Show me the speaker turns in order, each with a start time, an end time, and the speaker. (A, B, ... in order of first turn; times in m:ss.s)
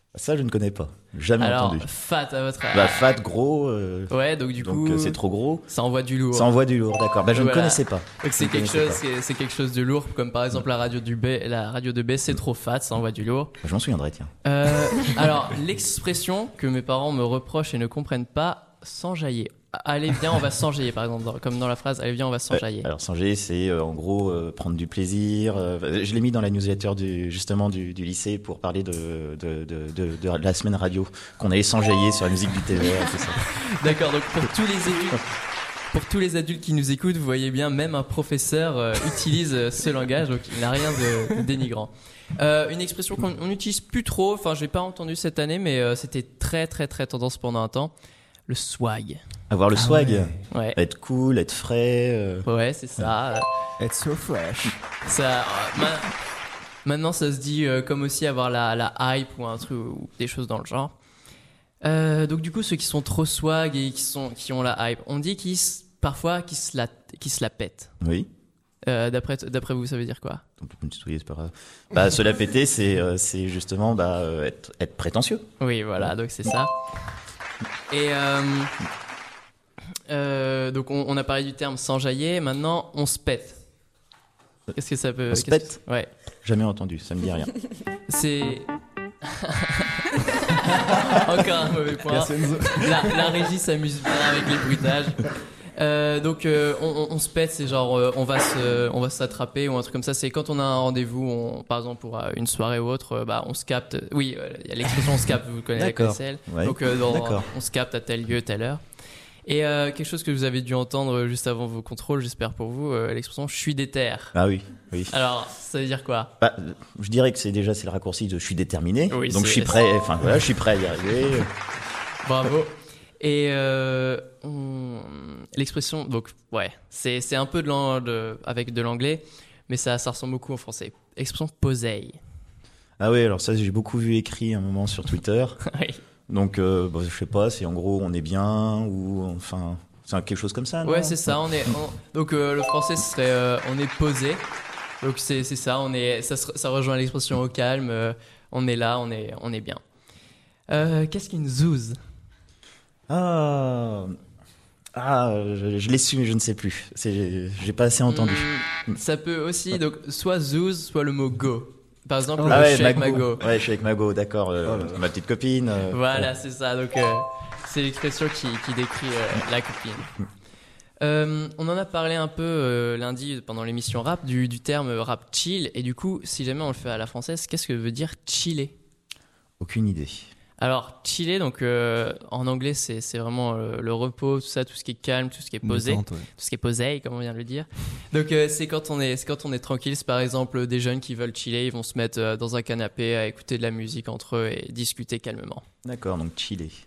0:00.1-0:01.9 A
0:01.4-0:03.1 B
0:02.7-0:05.6 A
0:04.1-0:06.5 B
0:06.3-0:09.0 A
0:07.3-0:13.5 B
0:13.6-0:14.3 A
0:14.4-0:22.9 B
0:22.5-0:33.4 A
0:33.6-0:35.2 B
0:35.9-0:47.9 B
0:48.5-0:49.2 B
0:49.5-0:53.1 A
0:49.7-0:50.4 C
0:50.5-0:50.8 B
0:52.4-0:53.5 B
0:53.8-0:54.8 C
0:55.0-0:56.1 B
0:56.8-1:00.9 B
1:01.8-1:07.9 B
1:08.0-1:08.3 A
1:08.8-1:10.4 B
1:10.6-1:15.4 A
1:15.6-1:16.7 B
1:17.9-1:18.7 B
1:20.1-1:23.6 B
1:24.8-1:26.1 B
1:25.3-1:25.8 A
1:26.4-1:27.5 A
1:28.1-1:28.7 B
1:29.3-1:48.8 B
1:32.1-1:33.4 C
1:45.8-1:47.5 A
1:49.4-1:54.3 B
1:54.3-1:55.1 A
1:55.1-1:56.3 B
1:56.4-2:01.5 A
1:59.1-1:59.8 B
2:02.2-2:12.2 B
2:13.0-2:15.6 A
2:15.6-2:16.0 B
2:16.3-2:21.4 A
2:20.8-2:24.5 B
2:25.0-2:29.8 B
2:30.7-2:32.0 B
2:33.1-2:34.1 A
2:34.9-2:39.0 A
2:38.1-2:43.4 B
2:42.4-2:43.2 C
2:42.5-2:46.3 A
2:44.6-2:45.0 C
2:45.9-2:50.1 B
2:51.0-2:58.7 B
2:59.6-3:00.3 A
3:00.6-3:15.6 B
3:05.6-3:06.3 C
3:15.8-3:16.7 A